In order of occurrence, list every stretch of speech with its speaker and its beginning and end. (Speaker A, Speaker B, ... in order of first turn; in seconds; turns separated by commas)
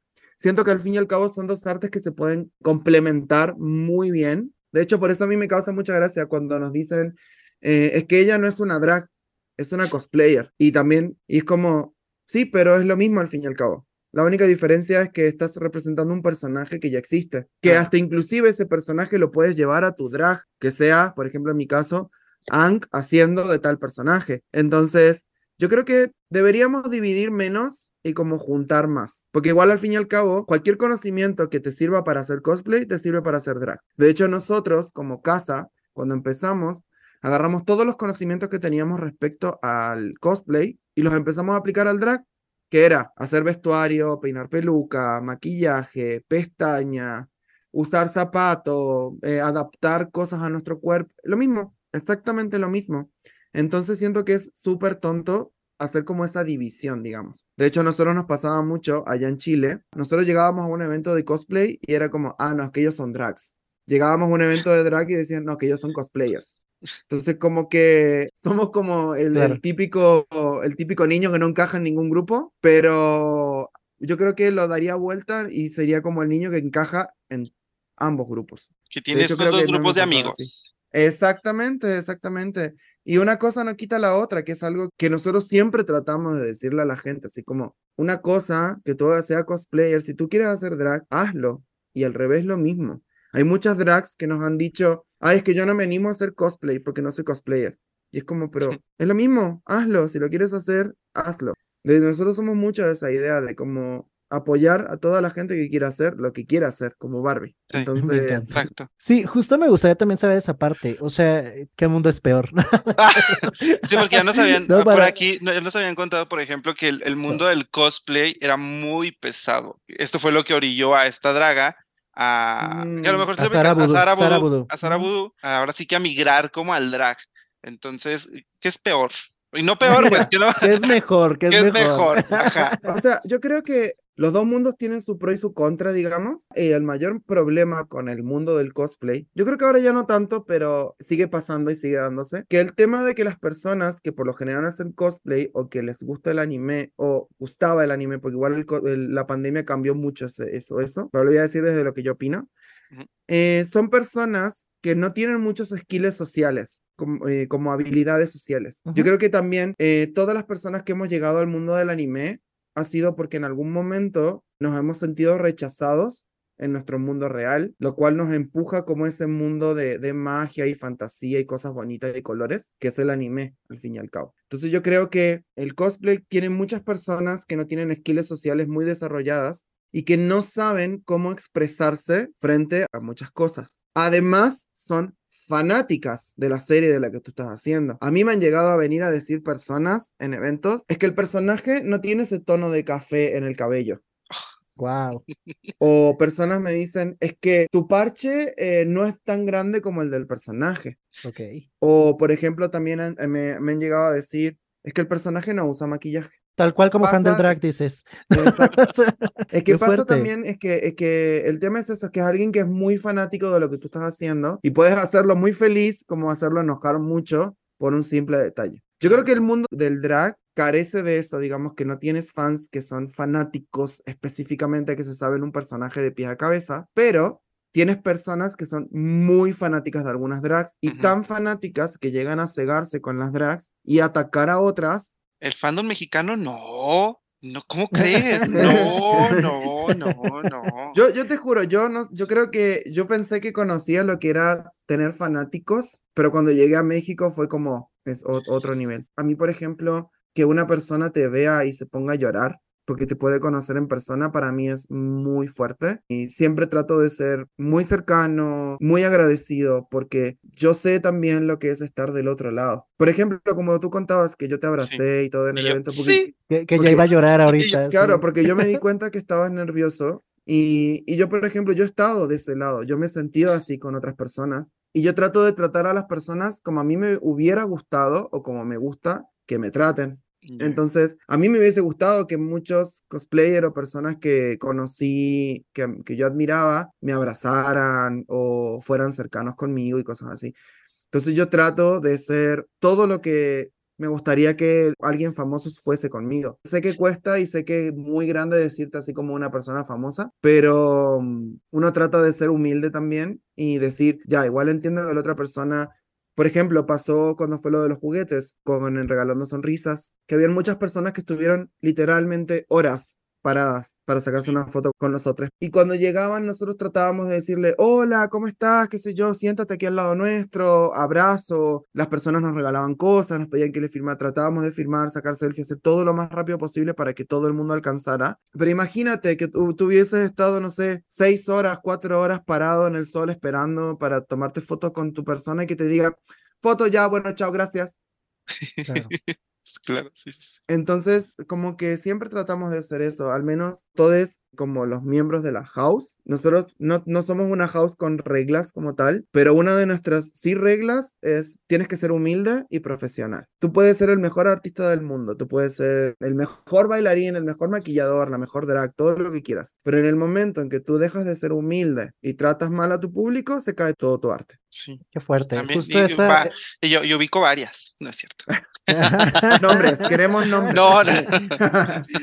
Speaker A: 0.4-66.6, Speaker A: 67.1-108.7, Speaker B: 69.3-69.6, Speaker C: 78.9-80.7, Speaker B: 108.0-115.1, Speaker C: 108.5-108.9, Speaker C: 113.0-130.7, Speaker B: 117.2-117.4, Speaker A: 122.6-123.3, Speaker B: 123.4-125.1, Speaker B: 129.8-133.0, Speaker A: 129.9-130.3, Speaker C: 131.5-132.7, Speaker A: 132.9-152.5, Speaker A: 153.3-194.0, Speaker B: 158.8-159.1, Speaker B: 194.8-195.2, Speaker A: 195.8-201.0, Speaker B: 201.2-201.6, Speaker A: 201.8-206.3, Speaker B: 206.6-210.3, Speaker A: 207.0-207.6, Speaker A: 208.3-208.8, Speaker A: 209.5-235.1, Speaker C: 230.8-231.1, Speaker C: 235.4-241.0, Speaker B: 237.9-239.0, Speaker A: 238.5-239.4, Speaker B: 239.8-240.2, Speaker A: 240.9-266.2, Speaker C: 265.5-266.3, Speaker B: 266.5-268.3, Speaker A: 266.8-267.0, Speaker C: 267.5-267.8, Speaker A: 267.9-290.5, Speaker C: 280.4-280.8, Speaker A: 291.1-338.0, Speaker C: 338.6-340.6, Speaker B: 338.9-339.1, Speaker A: 340.7-364.6, Speaker C: 364.7-365.0, Speaker B: 365.1-366.5, Speaker C: 365.5-368.5, Speaker B: 368.9-371.4, Speaker A: 369.6-372.1, Speaker C: 370.7-371.6